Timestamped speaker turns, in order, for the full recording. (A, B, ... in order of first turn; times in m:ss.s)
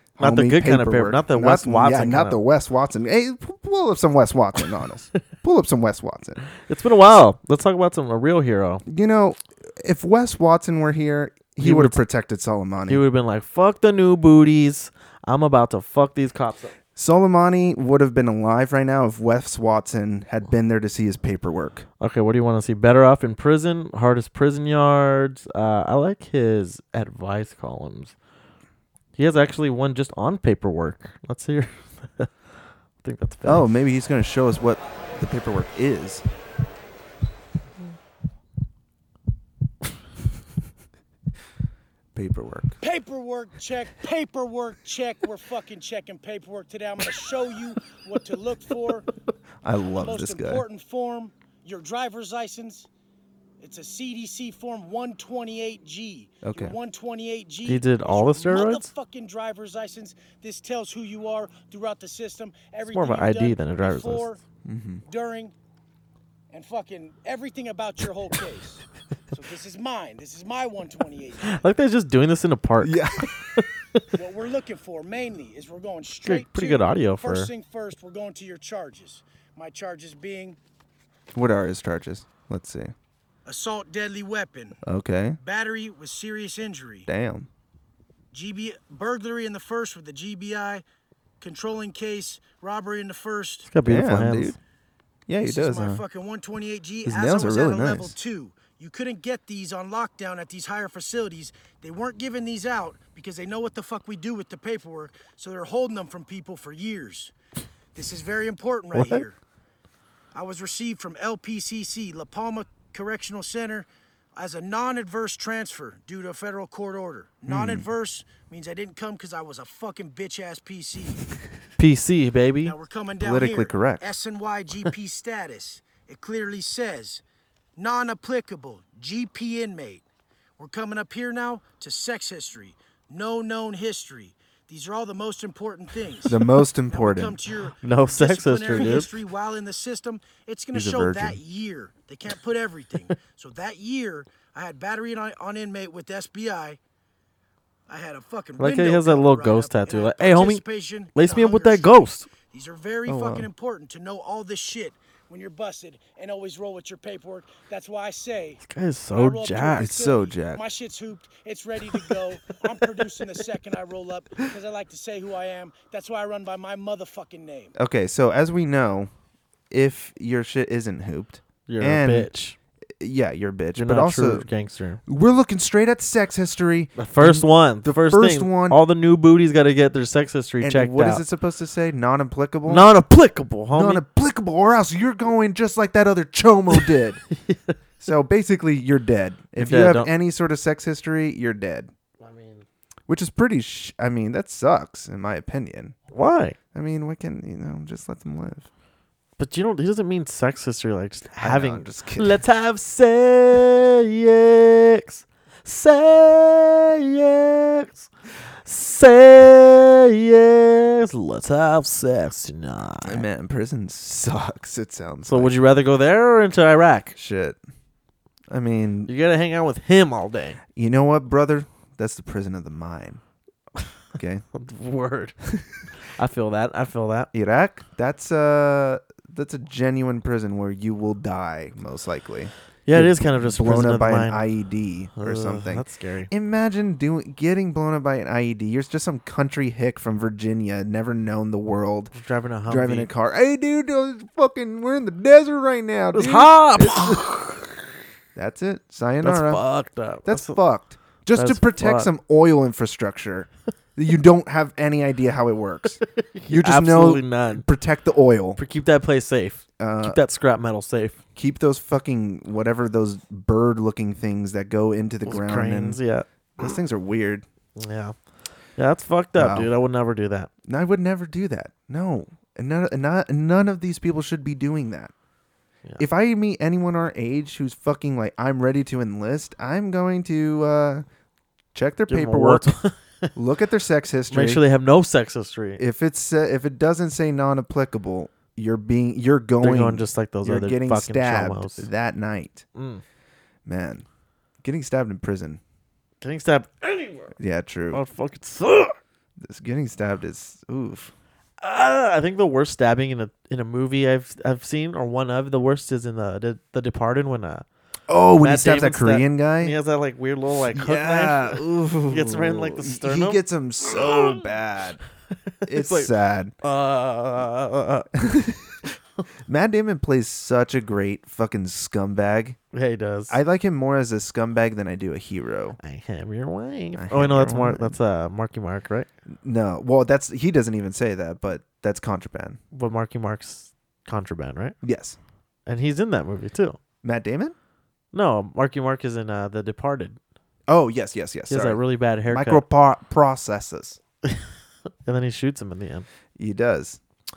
0:00.2-0:06.4 A
0:00.2-0:02.4 B
0:06.6-0:08.8 B
0:08.9-0:13.0 A
0:11.6-0:12.0 B
0:12.9-0:16.7 B
0:17.0-0:21.9 A
0:22.0-0:28.2 B
0:29.2-0:32.3 B
0:33.0-0:33.7 B
0:33.4-0:36.2 A
0:42.2-0:42.8 A
0:42.8-0:49.1 C
0:49.6-0:50.6 A
0:50.0-0:52.9 C
0:53.6-1:04.4 C
0:56.4-0:56.8 A
0:57.7-0:58.9 B
1:02.9-1:04.3 B
1:04.6-1:05.0 A
1:05.1-1:05.5 C
1:06.5-1:11.6 C
1:11.4-1:14.1 B
1:12.8-1:13.3 A
1:14.1-1:20.6 C
1:16.2-1:17.5 B
1:21.3-1:22.9 A
1:23.4-1:24.8 C
1:24.8-1:25.4 A
1:25.4-1:27.1 C
1:27.1-1:27.5 A
1:28.3-1:30.8 C
1:31.4-1:33.7 C
1:33.6-1:34.6 B
1:33.8-1:34.6 A
1:35.3-1:36.0 A
1:35.4-1:47.3 C
1:37.0-1:38.2 A
1:48.0-1:49.4 C
1:48.9-1:49.2 B
1:50.3-2:01.2 C
1:57.5-1:57.9 A
2:01.8-2:02.8 B
2:02.6-2:07.2 C
2:03.2-2:04.1 A
2:07.8-2:10.0 C
2:10.6-2:26.8 C
2:16.3-2:17.4 A
2:17.8-2:19.1 B
2:20.7-2:21.4 A
2:27.9-2:38.6 C
2:28.6-2:30.6 B
2:31.1-2:32.3 B
2:33.1-2:33.5 A
2:38.6-2:39.9 B
2:39.1-2:47.7 C
2:39.8-2:40.6 A
2:47.8-2:49.1 A
2:49.7-2:52.3 A
2:51.7-2:52.6 B
2:53.0-2:54.5 A
2:53.8-2:55.0 B
2:55.1-2:58.8 A
2:57.0-3:01.2 B
3:00.6-3:02.9 A
3:02.7-3:04.0 B
3:03.7-3:07.2 A
3:07.4-3:07.8 B
3:08.0-3:11.9 A
3:09.6-3:10.1 B
3:12.2-3:12.6 B
3:13.1-3:16.0 A
3:16.1-3:16.6 B
3:16.7-3:18.7 A
3:19.4-3:28.1 B
3:21.4-3:22.4 A
3:28.6-3:33.3 B
3:33.0-3:35.6 A
3:35.3-3:37.2 B
3:37.2-3:37.6 A
3:38.5-3:39.1 A
3:39.1-3:40.6 B
3:40.7-3:43.2 A
3:44.1-3:44.4 A
3:44.5-3:45.4 B
3:46.0-3:47.3 B
3:47.3-4:02.1 A
3:52.9-3:54.4 B
3:55.2-3:56.3 B
4:02.1-4:03.1 B
4:02.7-4:07.3 A
4:06.1-4:07.8 B
4:08.4-4:09.6 A
4:09.2-4:10.6 B
4:10.2-4:18.6 A
4:11.3-4:12.1 B
4:16.1-4:17.7 B
4:18.6-4:21.2 B
4:19.8-4:20.2 A
4:21.4-4:26.0 A
4:25.2-4:26.3 B
4:26.6-4:27.4 A
4:27.8-4:28.2 B
4:28.8-4:30.5 B
4:29.4-4:29.7 A
4:30.6-4:35.1 A
4:36.0-4:41.1 A
4:41.7-4:42.7 A
4:42.1-4:43.4 B
4:43.4-4:44.6 A
4:44.3-4:45.8 B
4:45.8-4:52.6 A
4:49.6-4:51.9 B
4:52.8-4:53.0 B
4:53.7-4:54.1 A
4:54.6-4:55.6 A
4:56.2-4:57.4 B
4:57.4-4:58.0 A
4:57.9-4:59.0 B
4:59.4-5:01.1 A
5:01.6-5:07.6 B
5:08.1-5:09.8 A
5:08.4-5:14.4 B
5:10.7-5:15.0 A
5:15.6-5:16.1 B
5:15.7-5:16.5 A
5:16.6-5:18.1 B
5:18.2-5:19.0 A
5:19.5-5:22.6 A
5:22.7-5:23.4 B
5:23.3-5:25.8 A
5:25.8-5:29.1 B
5:27.0-5:28.0 A
5:29.4-5:32.6 A
5:32.7-5:34.8 B
5:34.8-5:35.2 A
5:35.7-5:36.8 B
5:37.0-5:37.6 A
5:38.1-5:40.2 B
5:40.7-5:44.0 A
5:41.5-5:42.6 B
5:45.0-5:46.1 B
5:46.4-5:47.0 A